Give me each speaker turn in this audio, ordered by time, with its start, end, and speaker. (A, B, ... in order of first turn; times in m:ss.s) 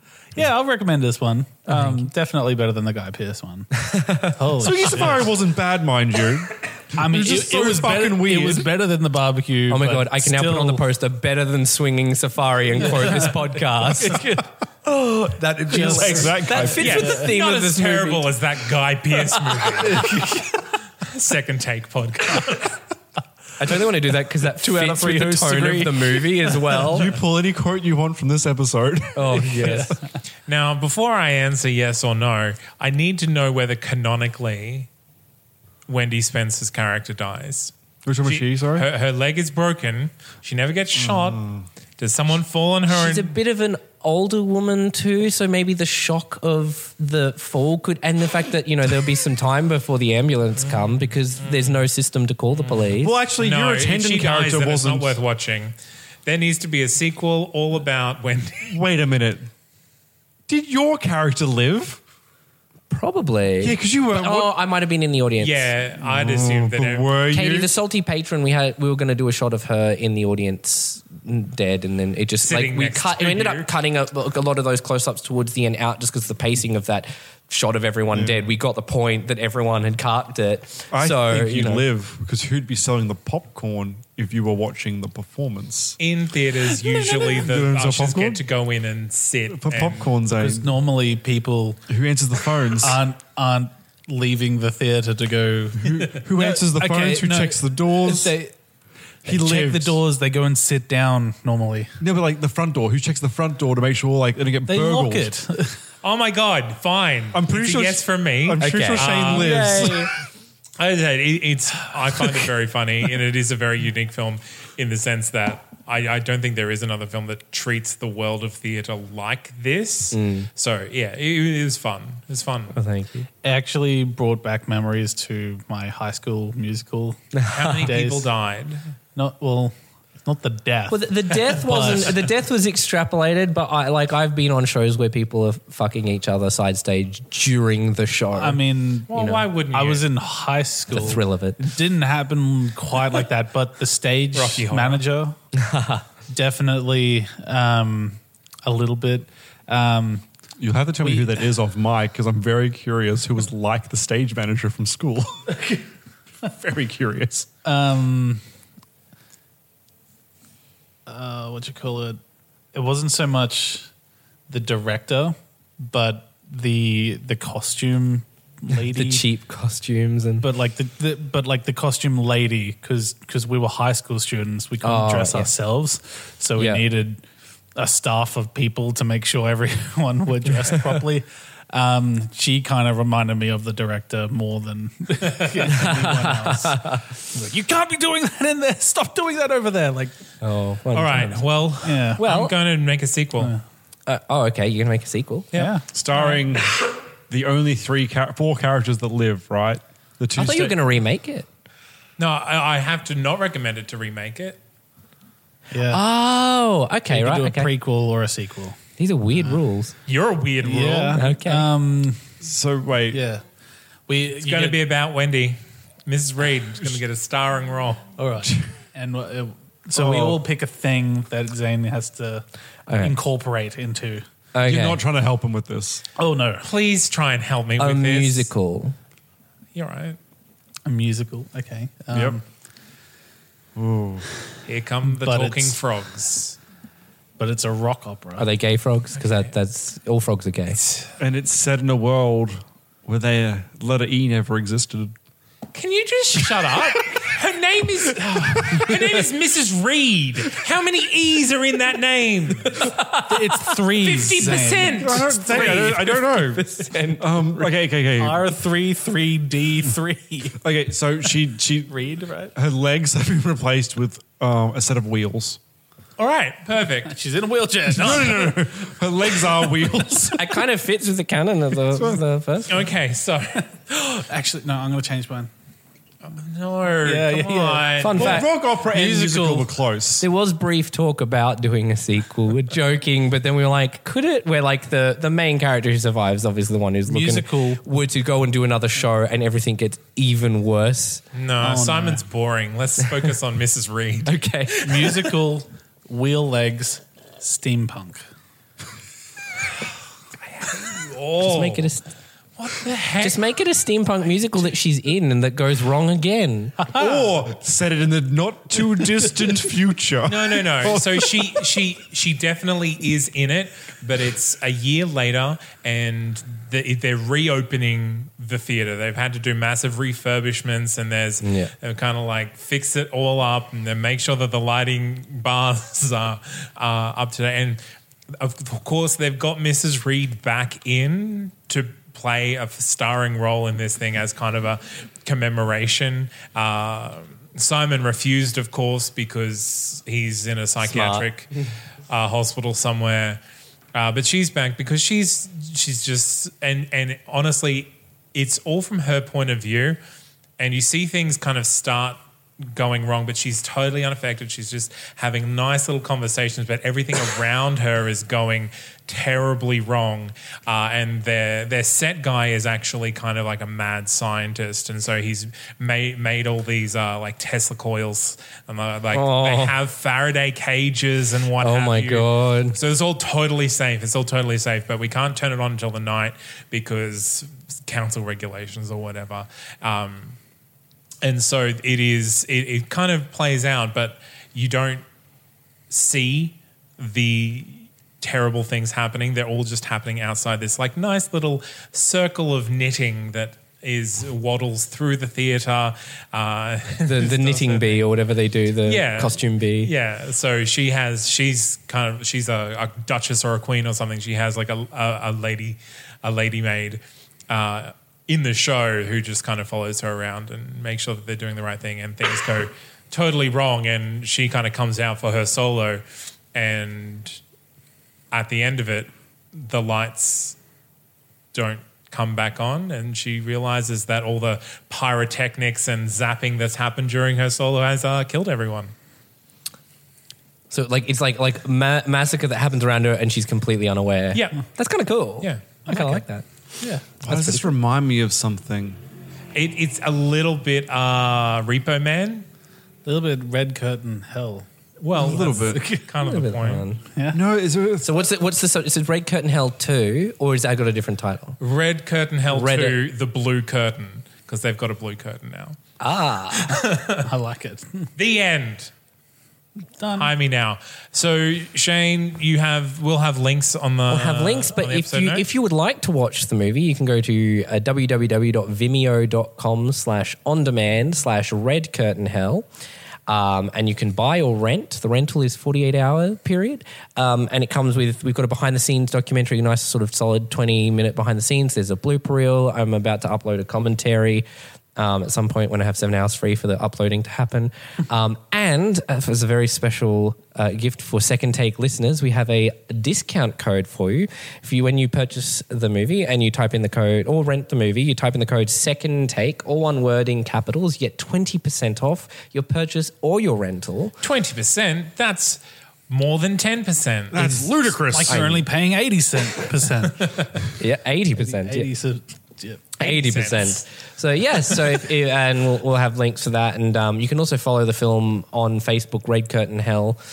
0:00.3-0:05.3 A
0:01.7-0:02.1 B
0:03.8-0:04.7 B
0:04.6-0:08.7 C
0:07.0-0:10.8 A
0:09.7-0:18.3 B
0:12.8-0:14.4 A
0:15.7-0:17.3 A
0:15.8-0:17.0 C
0:16.8-0:20.0 D
0:19.5-0:20.4 B
0:19.9-0:20.5 A
0:21.0-0:22.8 D
0:23.6-0:27.2 B
0:24.6-0:29.8 C
0:29.1-0:30.0 B
0:29.6-0:29.9 A
0:30.5-0:34.9 D
0:35.9-0:37.7 D
0:38.0-0:38.9 C
0:38.2-0:41.4 D
0:41.0-0:41.6 C
0:42.0-0:43.3 D
0:42.9-0:53.1 B
0:50.6-0:51.8 D
0:53.0-0:55.2 C
0:53.4-0:55.7 D
0:56.2-0:58.7 D
0:58.7-0:59.5 C
1:00.5-1:02.0 C
1:02.9-1:05.7 B
1:03.6-1:04.5 C
1:05.4-1:07.1 D
1:06.0-1:07.7 C
1:07.3-1:21.8 B
1:12.4-1:13.7 D
1:18.1-1:18.4 C
1:20.9-1:26.0 C
1:26.0-1:30.1 D
1:26.7-1:27.4 A
1:27.3-1:28.4 C
1:29.5-1:30.7 C
1:30.3-1:31.8 A
1:31.9-1:33.0 C
1:32.8-1:38.5 A
1:35.8-1:38.3 C
1:39.2-1:40.0 C
1:39.2-1:41.9 A
1:42.0-1:45.3 C
1:44.6-1:45.8 A
1:46.0-1:49.6 D
1:47.3-1:50.1 C
1:48.6-1:50.1 B
1:50.8-2:02.8 D
2:00.1-2:00.5 B
2:02.7-2:03.3 B
2:03.4-2:07.2 A
2:07.3-2:07.9 B
2:07.5-2:08.8 D
2:07.8-2:08.3 A
2:09.1-2:12.2 A
2:10.9-2:18.6 B
2:18.4-2:25.4 A
2:19.1-2:20.1 D
2:19.1-2:19.4 B
2:20.9-2:21.6 B
2:24.3-2:25.0 D
2:25.6-2:26.0 B
2:26.3-2:30.2 A
2:30.6-2:35.5 C
2:31.0-2:31.5 A
2:36.4-2:37.5 C
2:37.6-2:38.4 A
2:41.1-2:42.2 A
2:42.7-2:43.9 A
2:44.5-2:49.2 A
2:48.7-2:50.5 B
2:50.4-2:57.2 A
2:54.8-2:55.5 B
2:56.5-2:56.9 B
2:57.8-3:10.1 A
3:05.7-3:07.0 B
3:10.4-3:11.4 B
3:10.9-3:13.5 D
3:11.8-3:12.5 A
3:14.1-3:15.5 B
3:15.5-3:16.4 D
3:15.5-3:15.9 A
3:15.9-3:20.8 C
3:20.4-3:21.5 B
3:22.2-3:24.6 D
3:25.7-3:26.0 A
3:25.9-3:27.7 B
3:27.1-3:28.8 A
3:29.0-3:29.9 B
3:30.1-3:31.2 D
3:30.6-3:32.2 A
3:31.2-3:31.7 B
3:32.4-3:33.2 C
3:33.1-3:33.4 A
3:34.1-3:34.8 A
3:34.4-3:38.0 D
3:38.2-3:42.4 A
3:39.9-3:40.4 C
3:42.9-3:43.2 B
3:43.0-3:44.2 A
3:44.5-3:45.0 B
3:44.6-3:46.0 C
3:46.2-3:46.7 A
3:46.6-3:48.5 D
3:47.8-3:49.0 B
3:49.7-3:50.2 D
3:50.8-3:52.4 A
3:52.1-3:52.4 C
3:53.8-3:54.3 C
3:54.7-3:56.6 D
3:55.0-3:55.8 A
3:57.4-3:58.5 A
3:58.4-4:00.8 B
3:59.2-3:59.5 D
4:00.8-4:01.1 D
4:01.2-4:05.1 C
4:05.7-4:12.8 D
4:08.4-4:09.0 C
4:12.7-4:13.6 B
4:13.3-4:15.4 A
4:13.9-4:16.0 D
4:14.4-4:18.6 C
4:15.5-4:17.7 B
4:18.2-4:20.6 A
4:20.6-4:25.6 C
4:21.9-4:22.5 A
4:26.2-4:27.1 D
4:27.0-4:28.7 A
4:27.9-4:30.5 C
4:29.2-4:29.7 A
4:30.3-4:32.8 B
4:31.9-4:32.2 C
4:32.7-4:33.7 D
4:33.9-4:35.5 A
4:36.2-4:38.4 D
4:37.0-4:39.7 A
4:38.0-4:38.5 B
4:38.1-4:40.3 C
4:40.2-4:51.2 B
4:47.1-4:47.8 A
4:51.3-4:54.4 D
4:51.6-4:52.2 A
4:54.2-4:55.3 B
4:54.8-4:58.2 A
5:00.5-5:01.9 D
5:01.4-5:02.0 B
5:02.6-5:03.4 D
5:03.2-5:06.8 B
5:06.9-5:11.6 C
5:10.3-5:41.5 D
5:21.4-5:21.7 B
5:40.8-5:41.3 B
5:42.1-5:43.4 D
5:43.9-5:50.0 D
5:50.6-6:20.4 D
6:09.1-6:09.7 B
6:11.6-6:12.8 B
6:21.2-6:25.0 D
6:25.9-6:38.0 D
6:37.0-6:39.9 B
6:38.8-6:56.0 D
6:56.5-6:57.4 D
6:58.3-7:00.6 D
7:01.5-7:08.9 D
7:10.7-7:16.5 B
7:14.3-7:14.6 D
7:15.9-7:16.2 A
7:17.0-7:17.7 B
7:17.2-7:19.0 C
7:19.5-7:22.5 D
7:23.0-7:26.0 A
7:25.0-7:26.9 D
7:25.2-7:25.8 C
7:26.2-7:27.0 B
7:27.3-7:28.1 C
7:28.0-7:31.6 B
7:31.6-7:35.8 D
7:32.5-7:33.0 B
7:36.0-7:36.7 B
7:36.5-7:37.3 D
7:37.2-7:38.1 A
7:38.2-7:38.9 D
7:40.0-7:40.3 A
7:40.1-7:45.5 D
7:44.1-7:52.7 B
7:53.3-8:24.1 B
8:24.2-8:27.7 D
8:27.3-8:28.6 C
8:28.1-8:30.6 A
8:28.3-8:28.6 B
8:30.8-8:31.9 B
8:31.4-8:32.9 A
8:33.0-8:40.2 B
8:33.0-8:33.8 D